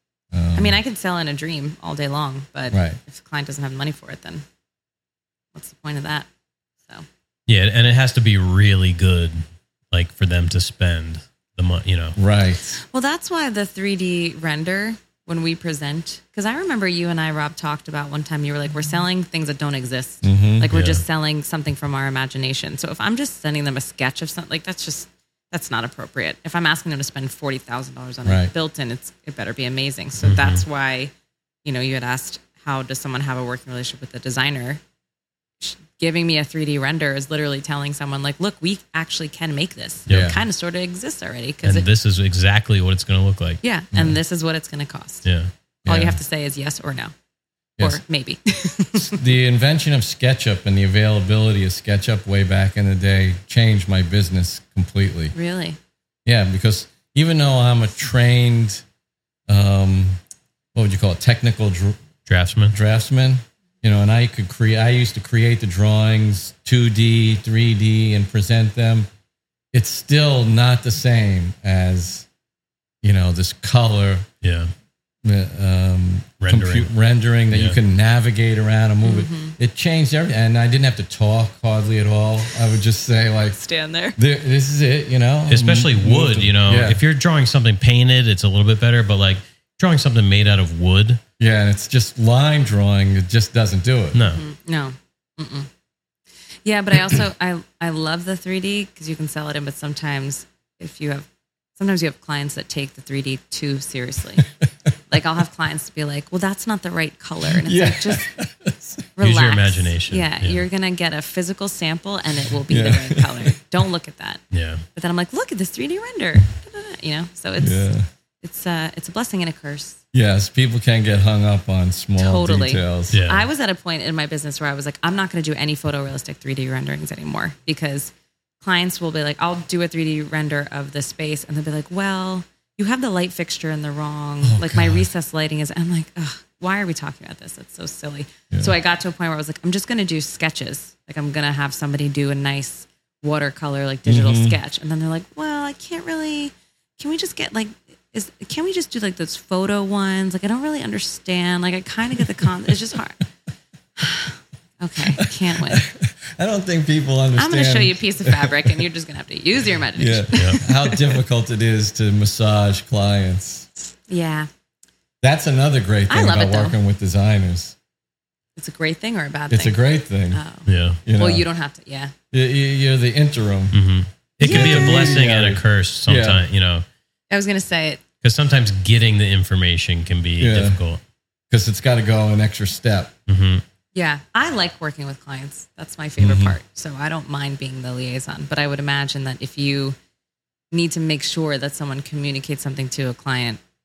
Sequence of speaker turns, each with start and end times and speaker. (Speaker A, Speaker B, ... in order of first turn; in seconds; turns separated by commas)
Speaker A: 0.3-0.8, Speaker B: 0.5-4.4, Speaker A: 2.7-3.0, Speaker B: 5.5-6.3, Speaker C: 7.5-12.2, Speaker A: 12.2-12.8, Speaker B: 12.8-31.1, Speaker A: 20.2-20.7, Speaker C: 20.7-21.0, Speaker A: 28.2-28.5, Speaker C: 30.2-30.6, Speaker B: 31.6-34.8, Speaker B: 35.6-41.9, Speaker A: 40.1-40.4, Speaker C: 40.1-40.3, Speaker C: 41.6-43.6, Speaker B: 43.6-45.2, Speaker C: 45.2-45.5, Speaker A: 45.8-46.2, Speaker B: 45.9-47.1, Speaker B: 47.8-49.2, Speaker A: 49.0-55.3, Speaker B: 55.3-55.8, Speaker A: 56.2-58.8, Speaker A: 59.5-60.2, Speaker A: 60.7-62.0, Speaker C: 62.2-62.8, Speaker A: 62.7-69.1, Speaker A: 69.7-72.3, Speaker A: 73.0-74.2, Speaker C: 74.4-74.7, Speaker A: 75.2-83.6, Speaker C: 76.4-76.9, Speaker C: 77.5-77.8, Speaker B: 79.0-79.5, Speaker B: 83.5-84.2, Speaker A: 84.2-87.0, Speaker C: 85.5-91.2, Speaker A: 91.4-94.2, Speaker C: 94.1-94.4, Speaker B: 94.2-95.7, Speaker B: 96.6-104.5, Speaker A: 104.4-104.7, Speaker B: 105.1-108.3, Speaker A: 107.6-109.0, Speaker B: 109.2-114.4, Speaker C: 109.2-110.6, Speaker A: 112.7-113.5, Speaker C: 114.5-114.8, Speaker B: 114.9-117.9, Speaker A: 117.6-118.1, Speaker B: 118.4-120.0, Speaker A: 120.1-123.2, Speaker B: 122.2-153.2, Speaker C: 123.1-123.5, Speaker A: 134.4-135.0, Speaker A: 144.1-144.6, Speaker B: 154.0-155.8, Speaker A: 155.2-158.8, Speaker B: 157.3-161.2, Speaker A: 159.9-163.7, Speaker C: 160.3-160.6, Speaker B: 163.8-164.5, Speaker A: 165.2-167.7, Speaker B: 166.1-166.8, Speaker B: 168.6-169.8, Speaker A: 169.5-170.4, Speaker B: 170.3-172.1, Speaker C: 170.7-171.0, Speaker A: 171.0-171.4, Speaker A: 172.3-173.8, Speaker C: 173.7-176.8, Speaker A: 174.4-176.4, Speaker B: 174.4-175.1, Speaker B: 177.3-178.0, Speaker C: 178.2-181.0, Speaker A: 180.4-180.8, Speaker A: 181.5-183.1, Speaker C: 183.3-183.6, Speaker B: 183.9-189.9, Speaker A: 186.2-186.6, Speaker B: 190.7-193.6